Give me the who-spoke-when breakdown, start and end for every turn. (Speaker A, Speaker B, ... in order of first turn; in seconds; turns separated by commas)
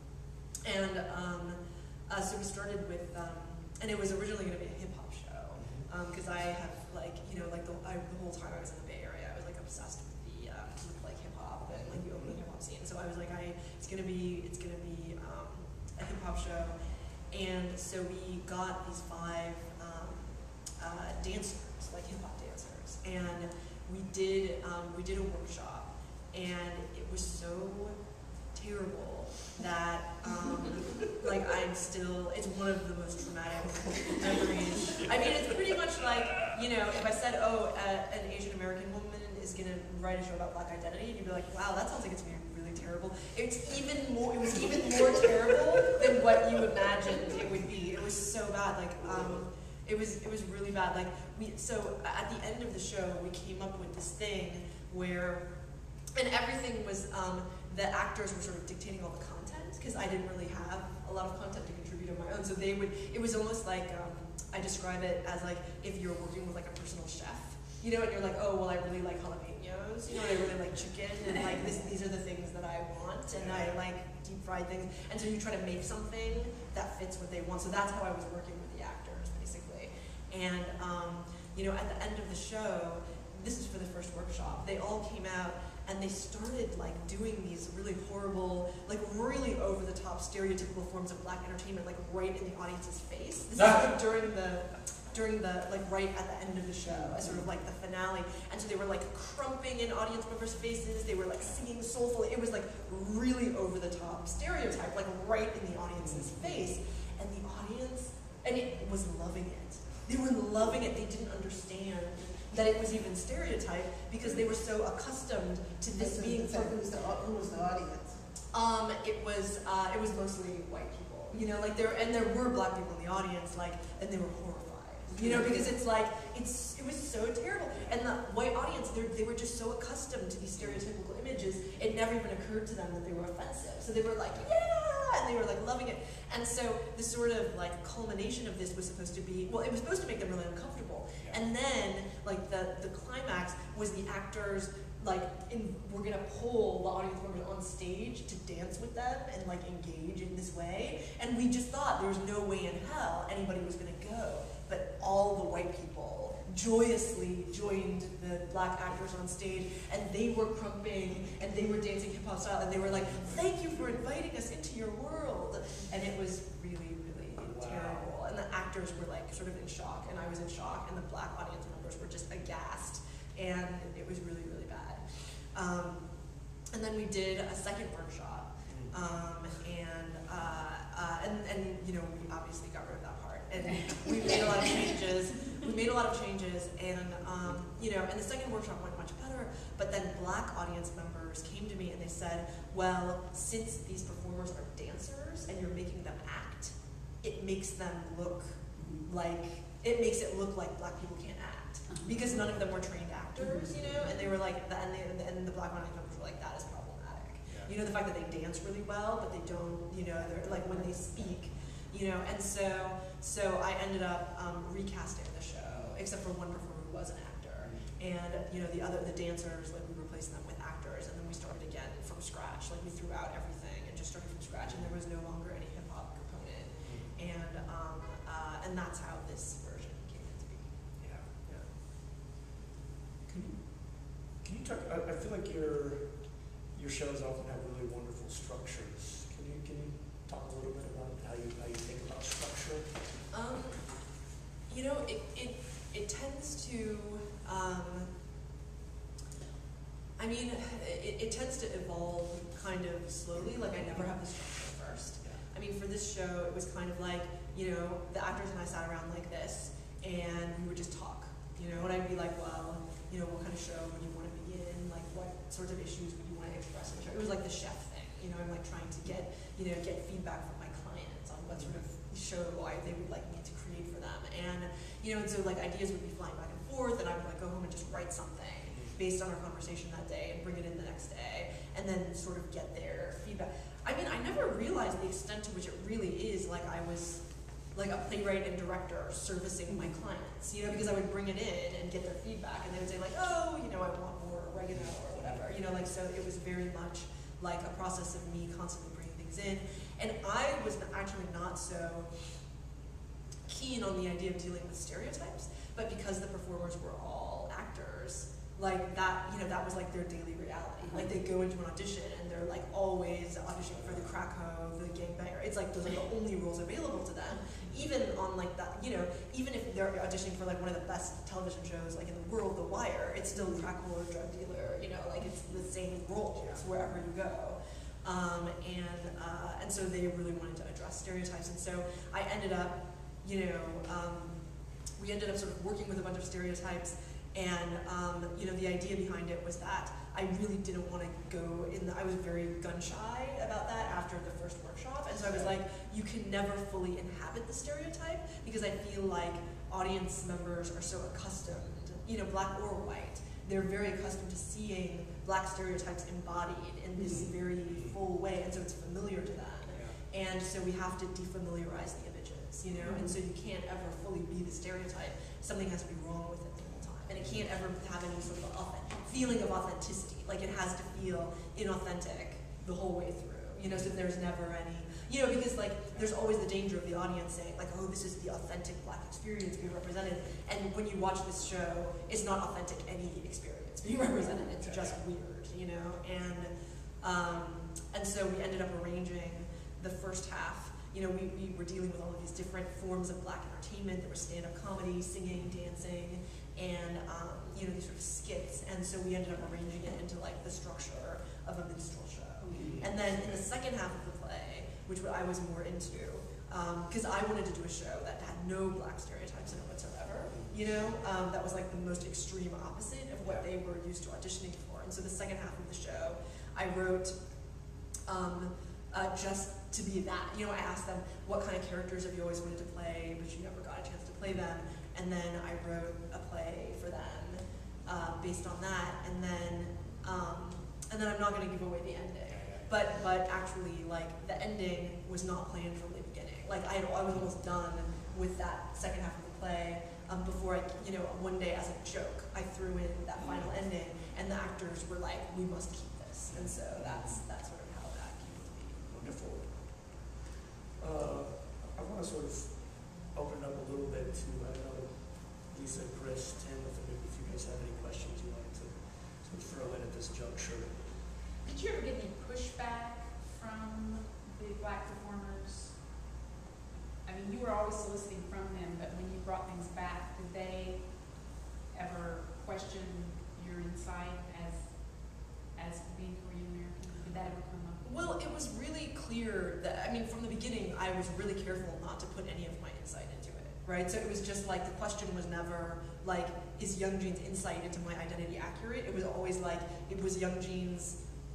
Speaker A: 0.7-16.8, Speaker B: 5.6-5.9, Speaker B: 11.7-12.4, Speaker A: 17.3-28.0, Speaker A: 28.5-55.5, Speaker A: 56.1-116.8, Speaker B: 73.4-73.8, Speaker B: 96.9-97.4, Speaker B: 106.0-106.7, Speaker C: 116.0-118.2, Speaker A: 118.5-176.1, Speaker B: 130.6-130.8, Speaker B: 167.4-168.1, Speaker A: 176.7-230.7, Speaker B: 178.7-179.0, Speaker D: 183.6-184.1, Speaker D: 198.8-199.1, Speaker D: 201.9-202.2, Speaker B: 202.3-202.6, Speaker D: 203.4-203.9, Speaker B: 203.7-204.1, Speaker B: 217.6-217.9, Speaker B: 224.7-224.9, Speaker B: 226.8-227.1, Speaker B: 231.0-231.3, Speaker A: 231.4-231.7, Speaker B: 233.4-243.0, Speaker A: 243.3-248.1, Speaker A: 250.2-302.5, Speaker B: 271.5-271.9, Speaker B: 278.7-279.0, Speaker B: 294.7-295.5, Speaker A: 303.5-334.4, Speaker B: 313.7-314.1, Speaker D: 323.3-323.6, Speaker A: 335.0-417.2, Speaker B: 357.0-358.0, Speaker B: 359.7-360.0, Speaker B: 362.8-363.0, Speaker D: 362.8-363.1, Speaker B: 373.7-374.0, Speaker B: 384.6-385.0, Speaker D: 402.4-402.8, Speaker B: 402.5-403.4, Speaker B: 410.3-410.9, Speaker B: 413.2-413.5, Speaker A: 418.1-448.9, Speaker B: 432.4-432.7, Speaker B: 443.2-443.5, Speaker B: 446.3-447.2, Speaker B: 448.9-450.1, Speaker B: 450.8-461.0, Speaker D: 461.4-465.8, Speaker D: 467.0-478.2, Speaker A: 477.8-491.0